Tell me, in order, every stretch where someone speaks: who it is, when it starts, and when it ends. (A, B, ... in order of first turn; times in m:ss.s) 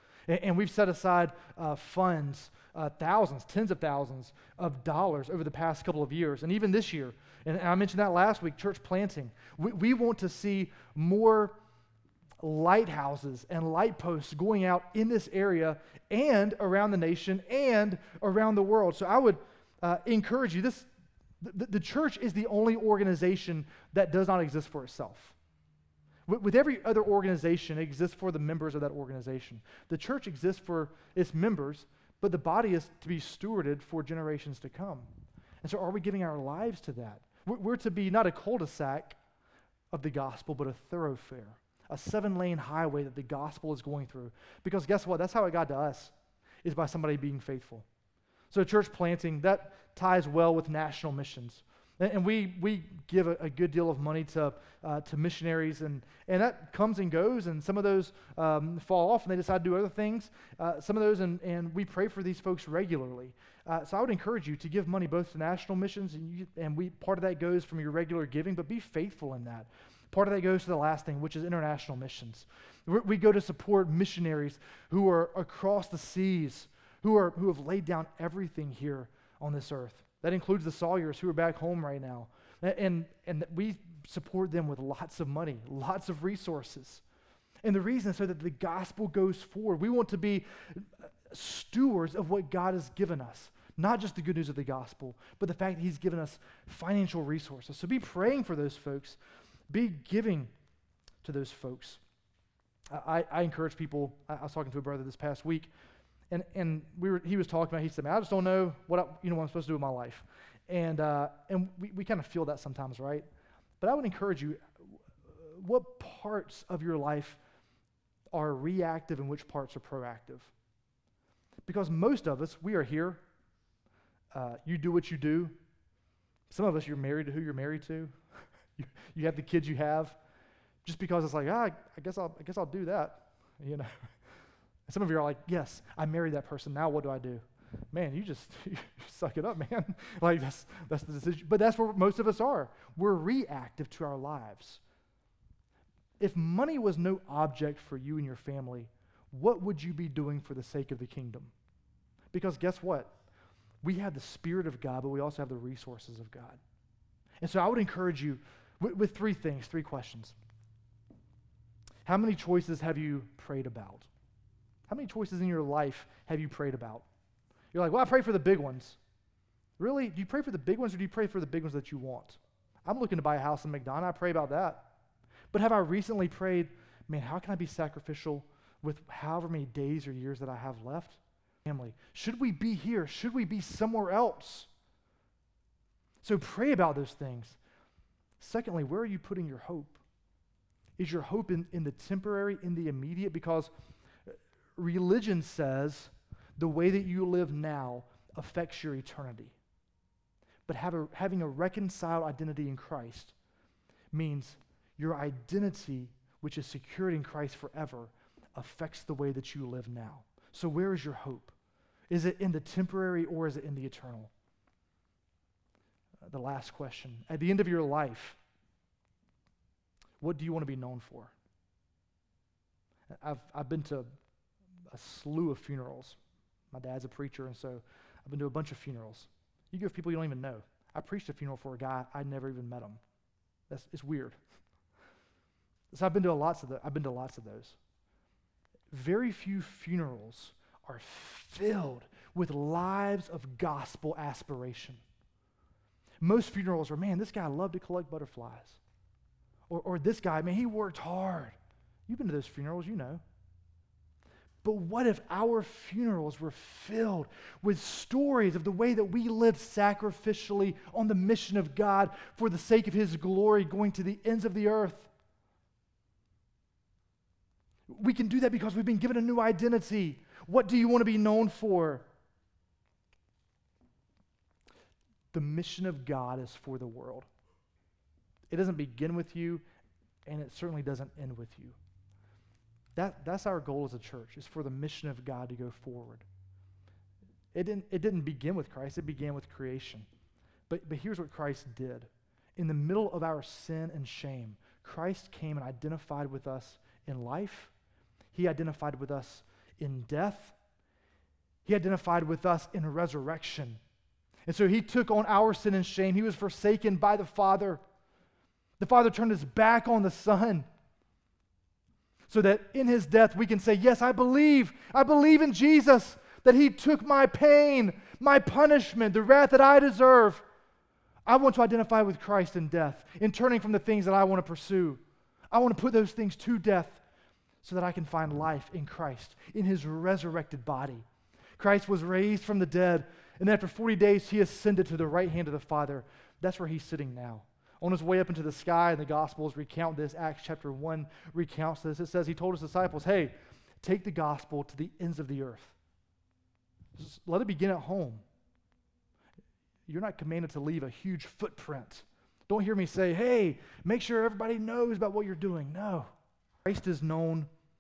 0:00.3-0:11.6 A
0:12.4-0:20.9 A
0:21.4-0:25.4 A
0:26.3-0:35.1 A
0:35.6-0:39.2 A
0:39.9-0:46.1 A
0:46.6-0:47.8 A
0:48.5-1:27.0 A
1:27.6-1:39.2 A
1:39.7-1:40.5 A
1:41.2-1:42.0 A
1:42.9-1:45.7 A
1:46.3-1:53.2 A
1:53.8-1:54.6 A
1:55.3-1:57.4 A
1:58.3-2:00.5 A
2:01.7-2:03.2 A
2:04.3-2:05.6 A
2:06.5-2:08.1 A
2:08.8-2:10.2 A
2:10.8-2:13.9 A
2:14.9-2:24.8 A
2:26.2-2:31.5 A
2:32.3-2:33.1 A
2:33.8-2:36.6 A
2:37.4-2:40.4 A
2:42.1-2:44.1 A
2:44.9-2:47.0 A
2:47.7-2:49.0 A
2:49.8-2:54.9 A
2:55.5-3:04.7 A
3:06.2-3:07.6 A
3:08.4-3:10.0 A
3:11.0-3:13.7 A
3:14.8-3:19.6 A
3:20.7-3:23.3 A
3:24.1-3:31.6 A
3:32.1-3:34.3 A
3:36.2-3:38.4 A
3:40.2-3:41.3 A
3:43.2-3:44.1 A
3:44.9-3:46.2 A
3:46.7-3:53.0 A
3:53.7-3:54.4 A
3:55.9-3:57.8 A
3:58.9-4:05.0 A
4:06.2-4:08.8 A
4:09.7-4:11.6 A
4:12.1-4:13.2 A
4:14.6-4:25.1 A
4:27.9-4:32.0 A
4:35.3-4:37.3 A
4:38.5-4:39.6 A
4:40.3-4:41.8 A
4:43.0-4:46.2 A
4:47.5-4:50.1 A
4:50.7-4:57.7 A
4:58.3-5:00.6 A
5:01.6-5:03.8 A
5:04.5-5:07.8 A
5:08.8-5:10.7 A
5:12.3-5:20.4 A
5:21.3-5:25.0 A
5:25.5-5:27.0 A
5:27.6-5:31.0 A
5:31.6-5:45.7 A
5:47.0-5:48.2 A
5:49.9-5:56.1 A
5:56.6-5:57.5 A